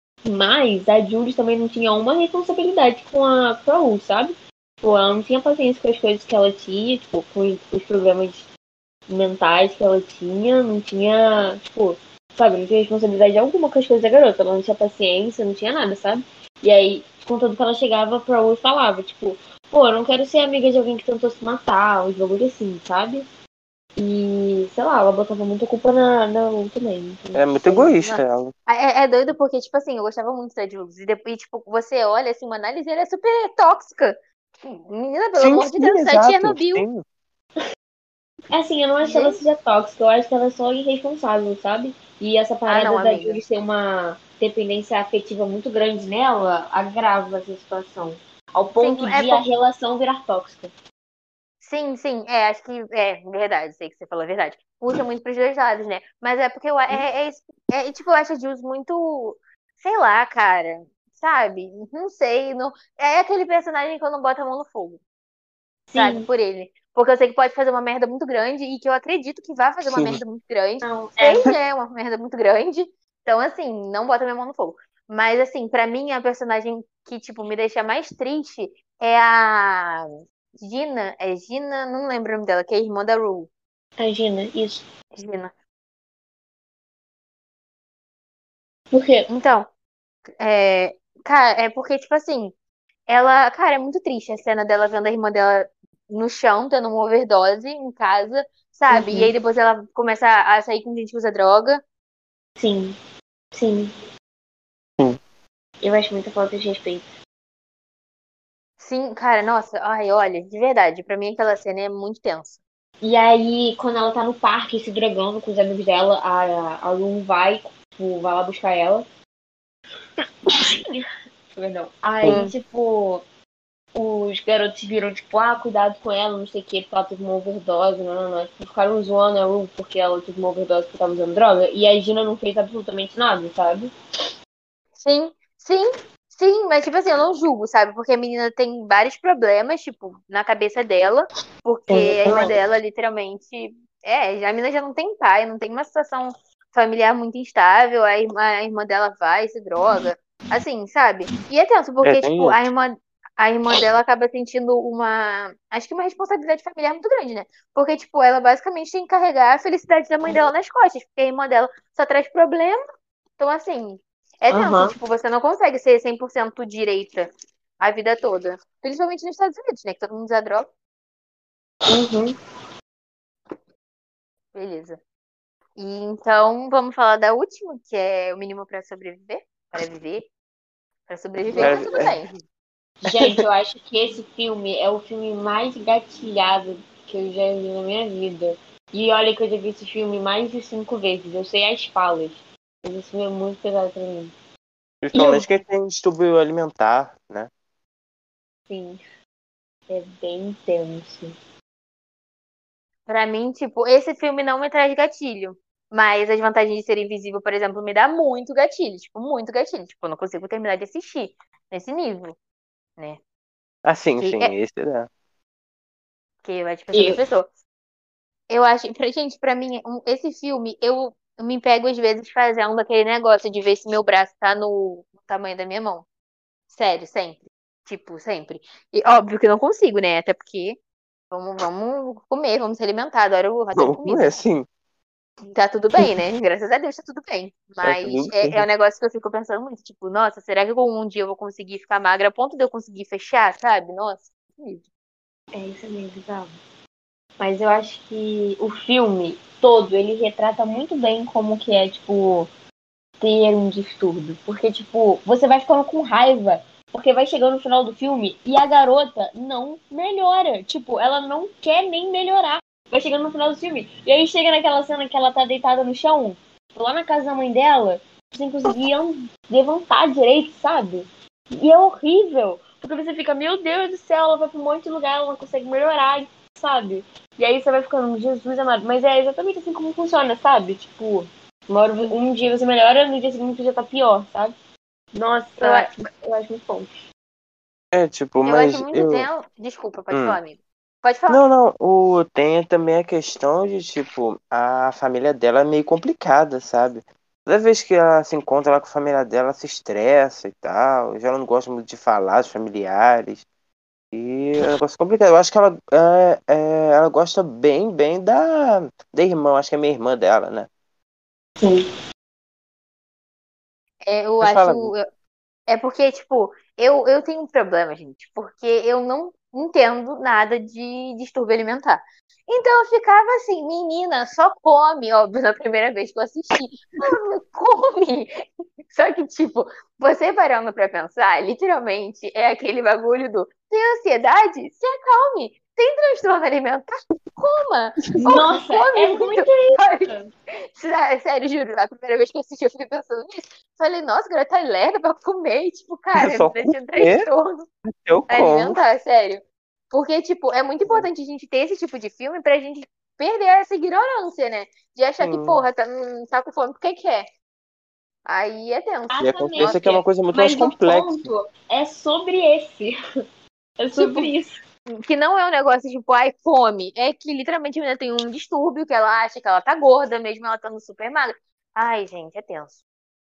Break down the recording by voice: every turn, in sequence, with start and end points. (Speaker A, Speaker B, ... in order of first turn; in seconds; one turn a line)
Speaker A: 0.2-8.5
Speaker A: 9.1-23.3
Speaker A: 24.0-28.0
Speaker B: 27.4-28.5
Speaker C: 28.1-36.9
Speaker B: 35.4-37.0
Speaker A: 38.5-50.7
Speaker C: 39.0-39.4
Speaker C: 42.7-43.4
Speaker C: 48.8-49.4
Speaker C: 51.6-65.0
Speaker A: 65.9-66.3
Speaker C: 66.0-83.5
Speaker B: 69.9-70.2
Speaker A: 70.8-71.5
Speaker A: 84.0-84.9
Speaker C: 85.2-85.5
Speaker A: 88.9-89.3
Speaker C: 89.3-89.7
Speaker C: 90.4-92.5
Speaker C: 93.1-101.8
Speaker A: 98.9-99.3
Speaker A: 102.6-103.0
Speaker A: 103.5-103.9
Speaker A: 105.8-107.1
Speaker C: 108.8-112.6
Speaker A: 113.0-119.1
Speaker A: 120.5-123.2
Speaker C: 122.2-122.5
Speaker A: 124.0-133.9
Speaker C: 135.0-162.8
Speaker A: 141.9-142.6
Speaker B: 152.0-152.6
Speaker C: 163.4-170.7
Speaker A: 164.5-164.9
Speaker A: 171.9-172.3
Speaker C: 174.5-175.0
Speaker C: 175.8-180.3
Speaker C: 181.1-182.4
Speaker A: 181.5-181.8
Speaker B: 181.6-182.2
Speaker A: 183.0-194.3
Speaker B: 195.0-197.5
Speaker A: 195.2-195.5
Speaker A: 198.7-199.0
Speaker A: 199.9-201.3
Speaker C: 203.1-212.4
Speaker B: 213.8-215.1
Speaker C: 214.2-214.5
Speaker C: 216.4-217.5
Speaker A: 216.9-217.2
Speaker C: 218.5-226.1
Speaker C: 226.7-230.8
Speaker C: 231.3-234.3
Speaker B: 233.8-234.7
Speaker C: 235.5-244.9
Speaker B: 237.8-238.7
Speaker A: 245.5-246.6
Speaker A: 247.4-252.5
Speaker A: 253.2-284.6
Speaker A: 285.1-286.9
Speaker C: 285.6-285.9
Speaker B: 287.9-289.3
Speaker C: 288.4-291.4
Speaker B: 290.1-290.4
Speaker B: 291.3-303.5
Speaker B: 304.1-310.7
Speaker A: 311.6-311.9
Speaker C: 314.1-315.1
Speaker B: 314.4-314.9
Speaker C: 315.7-340.1
Speaker A: 338.2-340.3
Speaker C: 340.8-347.7
Speaker B: 346.2-347.2
Speaker B: 347.9-348.8
Speaker C: 348.3-357.3
Speaker B: 355.2-355.6
Speaker C: 358.3-360.0
Speaker A: 359.1-363.0
Speaker B: 359.2-361.2
Speaker A: 363.8-364.6
Speaker C: 363.9-364.3
Speaker C: 364.9-372.8